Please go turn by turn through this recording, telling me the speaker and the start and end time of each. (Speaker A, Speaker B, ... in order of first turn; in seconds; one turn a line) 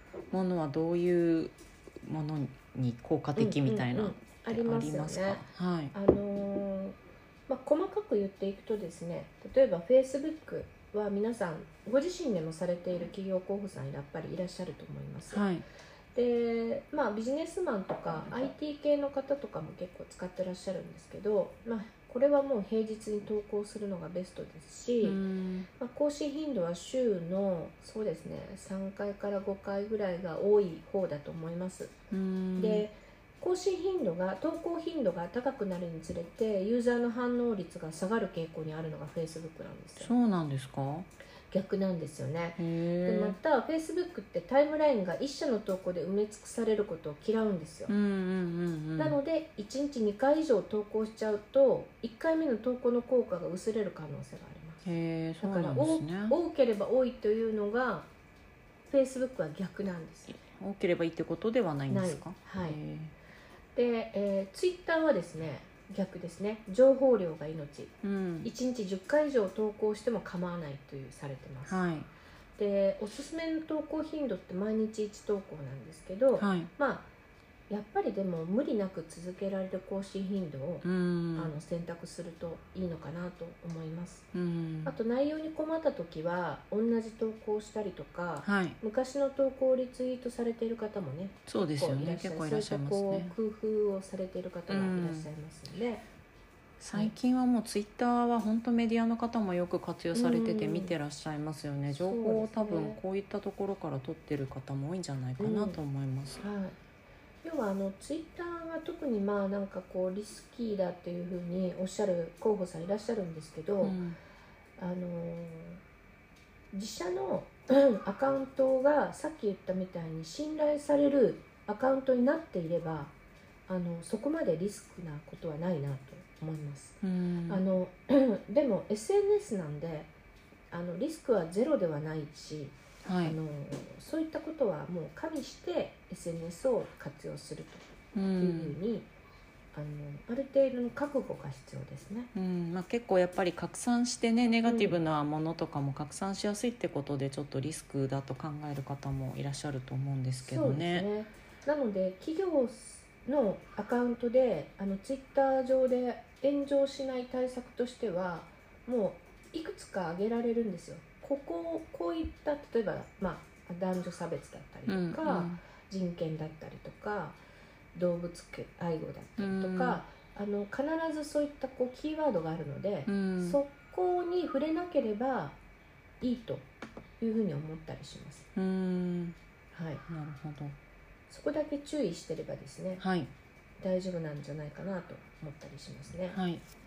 Speaker A: 0.3-5.9
Speaker B: 3.4-7.0
Speaker B: 7.5-15.4
Speaker A: 15.3-15.6
Speaker B: 16.1-25.2
Speaker A: 25.0-25.7
Speaker B: 25.8-31.9
Speaker A: 32.1-32.9
Speaker B: 32.6-40.1
Speaker A: 40.0-41.1
Speaker B: 41.5-47.9
Speaker A: 42.6-43.4
Speaker A: 47.9-49.2
Speaker B: 49.0-54.9
Speaker A: 54.8-56.4
Speaker B: 55.4-58.1
Speaker B: 58.9-60.4
Speaker A: 60.4-63.1
Speaker B: 61.9-62.8
Speaker B: 63.8-71.8
Speaker A: 68.0-68.5
Speaker A: 71.7-72.1
Speaker B: 72.6-77.1
Speaker A: 76.3-76.7
Speaker B: 77.7-84.3
Speaker A: 80.8-81.5
Speaker A: 84.3-84.9
Speaker B: 84.8-96.0
Speaker A: 88.4-88.8
Speaker A: 91.5-93.3
Speaker A: 94.7-95.3
Speaker A: 96.8-106.4
Speaker B: 100.1-101.0
Speaker B: 102.0-103.0
Speaker B: 105.4-105.8
Speaker B: 106.4-106.8
Speaker B: 107.4-114.0
Speaker A: 113.8-114.2
Speaker B: 114.8-115.8
Speaker B: 116.7-123.1
Speaker B: 123.7-130.1
Speaker A: 127.0-127.6
Speaker B: 130.7-137.8
Speaker A: 133.0-133.4
Speaker A: 138.1-138.8
Speaker B: 138.4-139.1
Speaker B: 139.7-142.3
Speaker A: 142.3-151.1
Speaker B: 144.7-145.0
Speaker B: 150.4-167.4
Speaker A: 164.9-165.6
Speaker B: 167.9-175.6
Speaker A: 169.4-170.0
Speaker A: 173.1-173.6
Speaker B: 176.2-176.7
Speaker B: 177.2-178.5
Speaker A: 178.6-179.4
Speaker B: 179.7-180.0
Speaker A: 180.1-180.8
Speaker B: 181.3-183.0
Speaker A: 183.0-183.3
Speaker B: 183.8-186.4
Speaker A: 186.3-186.6